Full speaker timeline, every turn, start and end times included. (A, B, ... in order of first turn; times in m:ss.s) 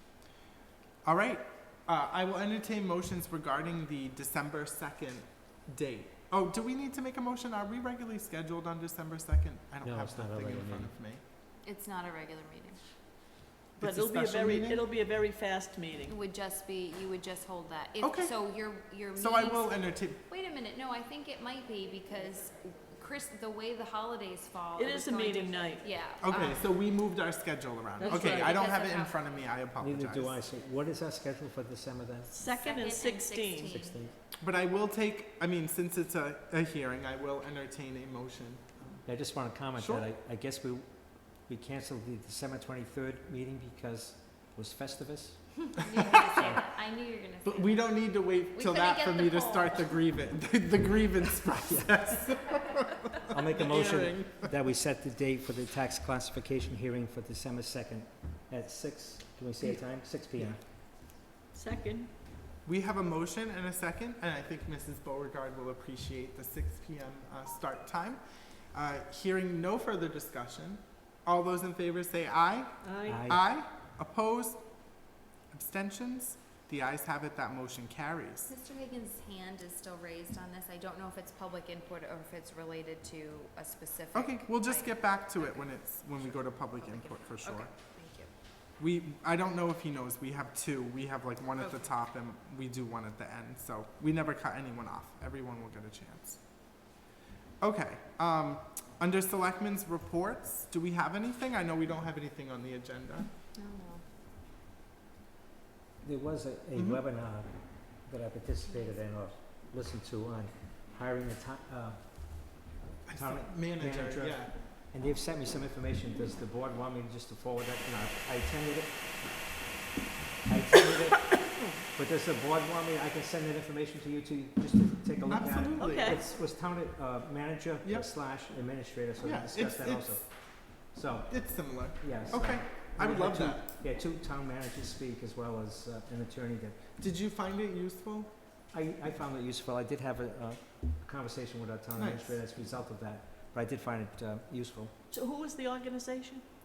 0:01.0-0:11.2 A
0:09.8-0:10.9 B
0:11.6-0:12.8 C
0:13.8-0:14.8 A
0:13.8-0:16.2 D
0:16.1-0:26.6 C
0:18.0-0:18.4 A
0:19.2-0:20.2 A
0:24.8-0:25.9 D
0:26.2-0:30.4 A
0:28.0-0:28.6 D
0:28.0-0:29.4 C
0:29.8-0:32.3 B
0:32.3-0:33.8 D
0:32.6-0:34.1 C
0:33.7-0:34.1 B
0:34.4-0:39.0 A
0:39.0-0:45.8 B
0:39.8-0:40.1 A
0:45.7-0:50.0 C
0:46.4-0:46.6 B
0:47.4-0:54.5 A
0:51.6-0:51.9 B
0:53.3-1:00.6 B
1:00.3-1:00.6 A
1:01.5-1:02.1 D
1:02.6-1:14.8 A
1:12.8-1:13.2 D
1:13.1-1:13.4 B
1:15.5-1:18.5 A
1:18.5-1:28.3 C
1:24.1-1:27.7 A
1:28.8-1:36.4 A
1:37.6-1:43.3 A
1:43.5-1:44.0 C
1:46.0-1:59.6 B
1:46.7-1:47.0 A
1:53.0-1:54.5 A
2:00.4-2:16.8 B
2:05.3-2:06.2 A
2:05.8-2:06.2 D
2:07.8-2:08.1 A
2:09.2-2:10.7 A
2:11.3-2:13.7 A
2:17.0-2:18.3 A
2:18.7-2:24.9 B
2:21.9-2:22.4 A
2:25.1-2:26.4 D